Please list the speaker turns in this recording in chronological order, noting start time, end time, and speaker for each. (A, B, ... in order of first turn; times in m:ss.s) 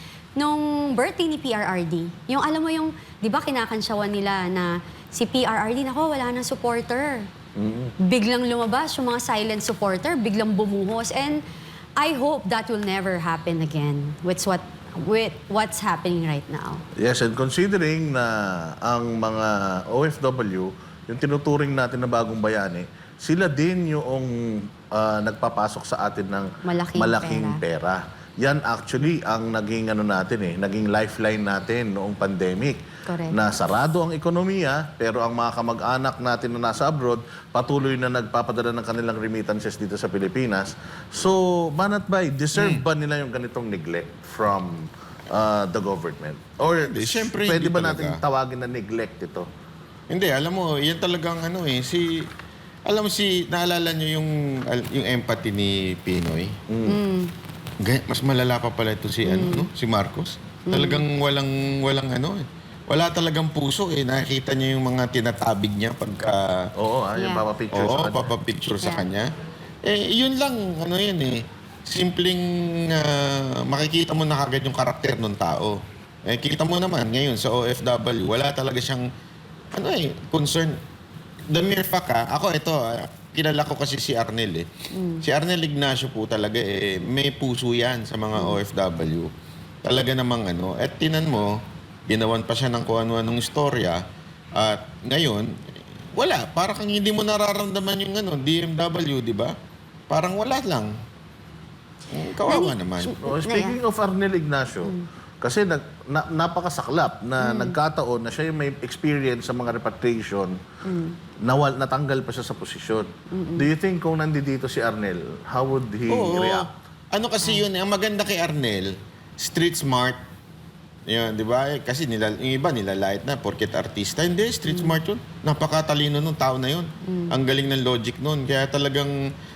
0:00.4-0:07.3 A
0:07.6-0:07.9 B
0:08.0-0:11.4 A
0:12.0-0:16.8 A
0:17.0-0:32.8 B
0:26.6-0:27.6 A
0:33.1-0:33.4 A
0:33.3-0:49.5 B
0:46.8-0:48.2 C
0:50.1-0:52.3 C
0:52.9-0:56.6 C
0:56.7-0:57.0 B
0:56.9-0:57.3 A
0:57.8-1:06.7 C
0:59.2-0:59.7 A
1:00.6-1:01.0 A
1:06.8-1:08.3 B
1:07.2-1:07.4 A
1:07.7-1:09.3 C
1:09.8-1:19.0 C
1:19.7-1:20.8 C
1:21.5-1:24.7 C
1:24.9-1:25.2 A
1:25.2-1:29.3 C
1:29.8-1:31.6 C
1:32.1-1:34.0 C
1:34.6-1:35.5 C
1:36.2-1:39.5 C
1:40.1-1:40.9 C
1:42.1-1:43.1 C
1:42.4-1:43.8 A
1:43.2-1:50.6 B
1:47.4-1:47.8 A
1:50.8-1:51.2 A
1:51.4-1:56.7 B
1:53.3-1:53.6 A
1:56.1-2:00.2 C
2:01.1-2:09.1 C
2:04.7-2:05.0 A
2:07.0-2:07.4 A